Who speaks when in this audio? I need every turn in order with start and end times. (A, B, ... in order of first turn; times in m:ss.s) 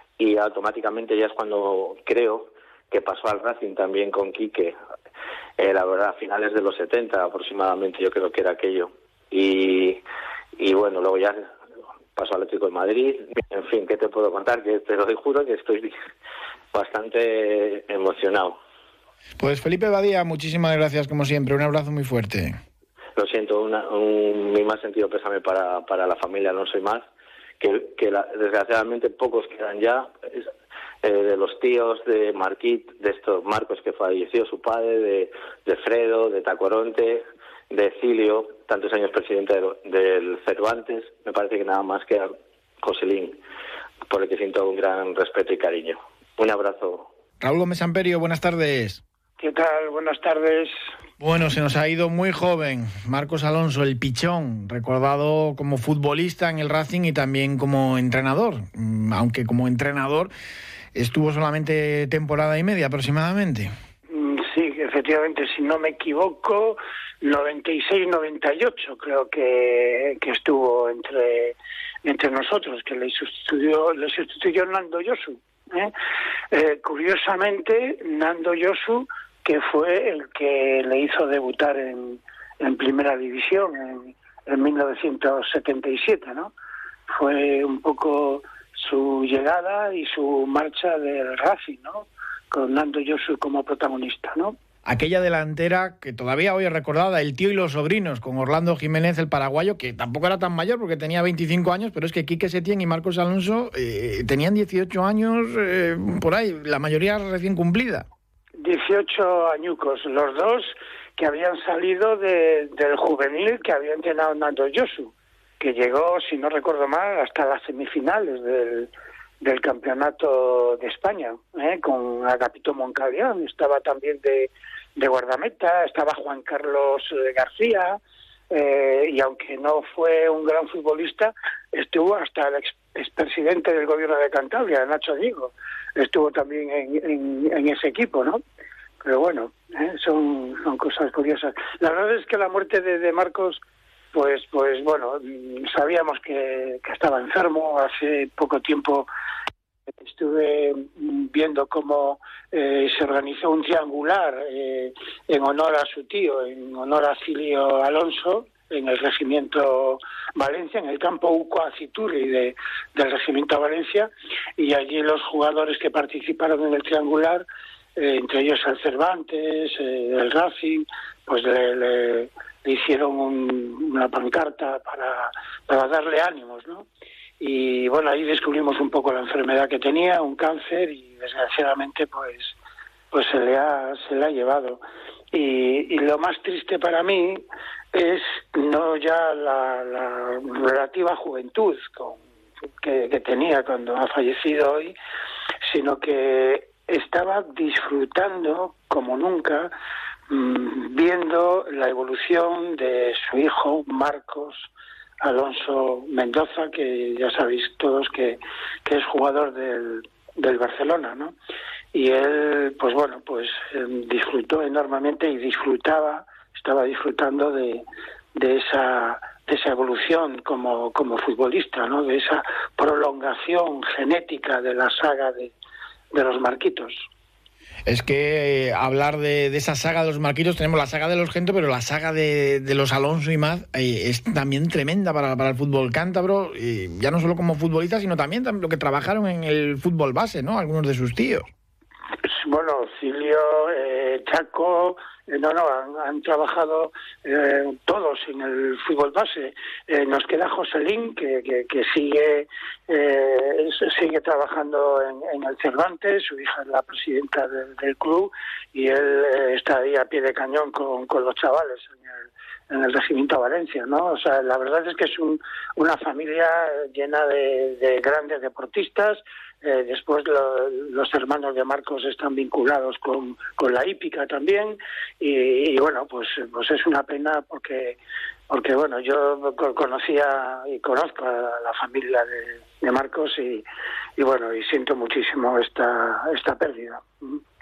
0:00.2-0:04.8 A
0:05.6-0:10.0 A
0:10.6-0:11.4 A
0:12.2-0:15.9 A
0:16.7-0:18.6 A
0:19.4-0:22.6 B
0:23.2-0:27.0 A
0:27.6-0:30.5 A
0:31.0-0:42.3 A
0:42.8-0:43.4 A
0:44.1-0:47.1 A
0:47.4-0:49.0 B
0:49.4-0:50.7 C
0:51.2-1:00.3 B
1:00.9-1:03.7 B
1:04.1-1:15.9 C
1:16.5-1:26.5 C
1:27.1-1:34.6 C
1:34.8-1:48.1 B
1:48.6-1:58.9 C
1:59.4-2:08.0 C
2:08.5-2:18.4 C
2:19.0-2:23.6 C
2:24.1-2:29.1 C
2:30.0-2:47.4 C
2:48.0-2:56.9 C
2:57.4-3:02.6 C
3:03.1-3:04.8 C
3:05.3-3:12.2 C
3:12.8-3:14.9 C
3:15.6-3:19.7 C
3:20.3-3:24.7 C
3:25.2-3:31.4 C
3:31.9-3:37.8 C
3:38.3-3:45.5 C
3:46.1-3:47.1 C
3:47.9-4:01.5 B
4:02.2-4:22.2 C
4:22.7-4:38.0 C
4:38.5-4:43.6 C
4:44.2-4:47.4 C